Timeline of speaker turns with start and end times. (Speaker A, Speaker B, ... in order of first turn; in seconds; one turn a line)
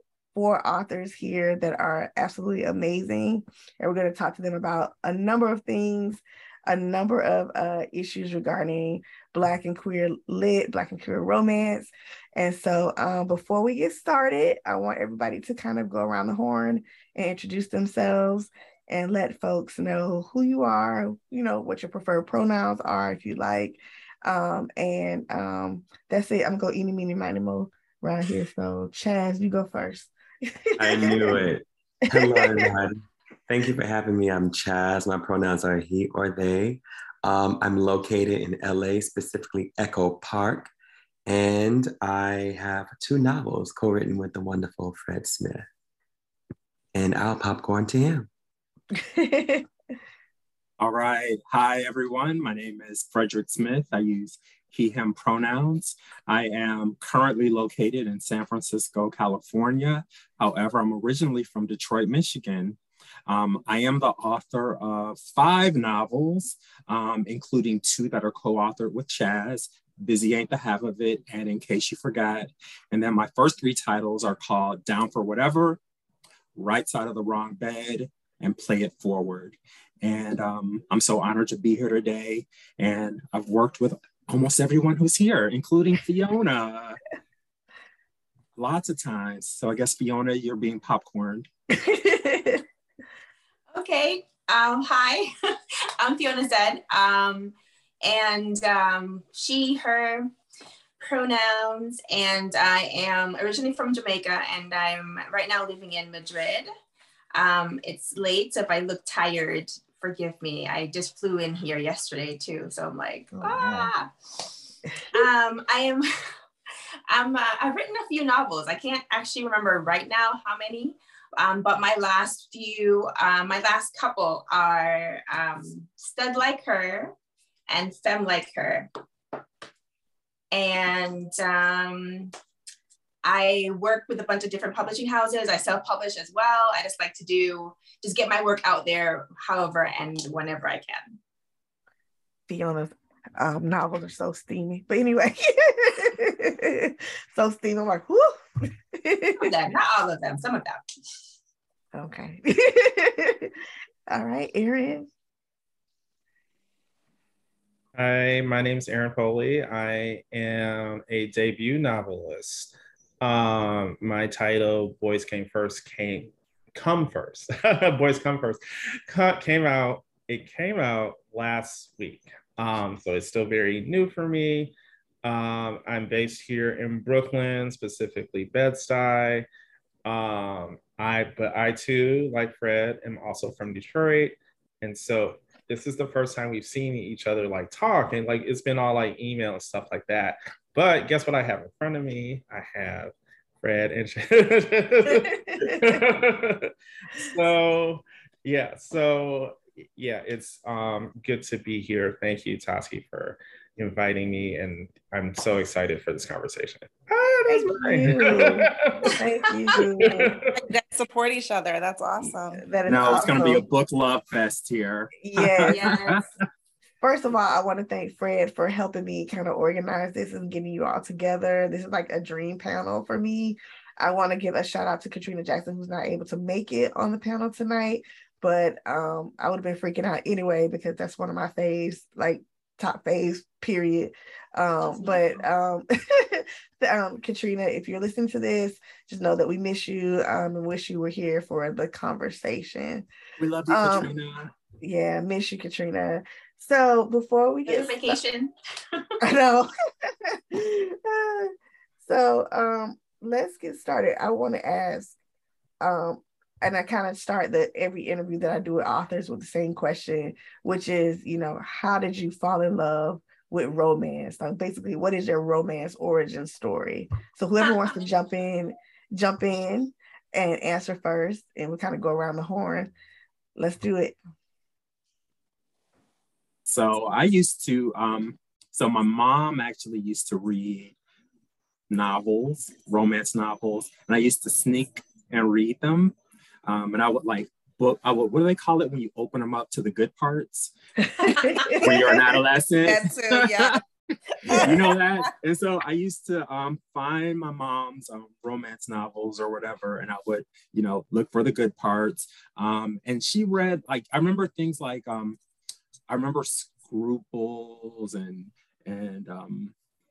Speaker A: 0.3-31.4
Speaker B: 30.8-40.7
Speaker A: 32.1-32.7
Speaker B: 41.3-45.7
Speaker B: 46.9-48.3
Speaker A: 48.9-49.7
Speaker C: 50.8-75.8
Speaker C: 76.5-87.0
Speaker C: 88.5-91.5
Speaker A: 91.7-92.6
Speaker D: 93.7-95.3
Speaker D: 96.0-100.3
Speaker D: 101.0-106.7
Speaker D: 107.3-114.5
Speaker A: 113.3-113.9
Speaker A: 114.9-115.2
Speaker D: 115.1-116.1
Speaker D: 117.1-127.1
Speaker D: 127.7-128.9
Speaker D: 130.5-132.3
Speaker D: 133.2-141.2
Speaker A: 142.5-148.4
Speaker A: 148.9-149.5
Speaker D: 149.4-150.8
Speaker A: 151.9-153.5
Speaker A: 154.1-155.1
Speaker E: 157.9-179.5
Speaker E: 180.0-209.2
Speaker A: 195.4-195.9
Speaker A: 207.5-210.4
Speaker E: 210.0-210.5
Speaker F: 210.5-212.6
Speaker A: 212.2-213.6
Speaker C: 212.8-216.4
Speaker A: 215.2-215.8
Speaker D: 215.7-216.3
Speaker A: 217.0-243.1
Speaker D: 234.9-235.2
Speaker C: 243.4-244.5
Speaker A: 243.7-244.1
Speaker A: 244.8-248.2
Speaker D: 247.7-249.1
Speaker A: 249.2-255.2
Speaker A: 255.8-272.9
Speaker D: 267.6-268.0
Speaker A: 273.6-274.2
Speaker C: 276.6-280.9
Speaker C: 281.9-290.7
Speaker A: 291.0-292.4
Speaker C: 291.8-293.8
Speaker F: 292.8-293.8
Speaker C: 294.5-305.4
Speaker A: 294.5-294.8
Speaker F: 294.5-294.9
Speaker C: 306.1-309.7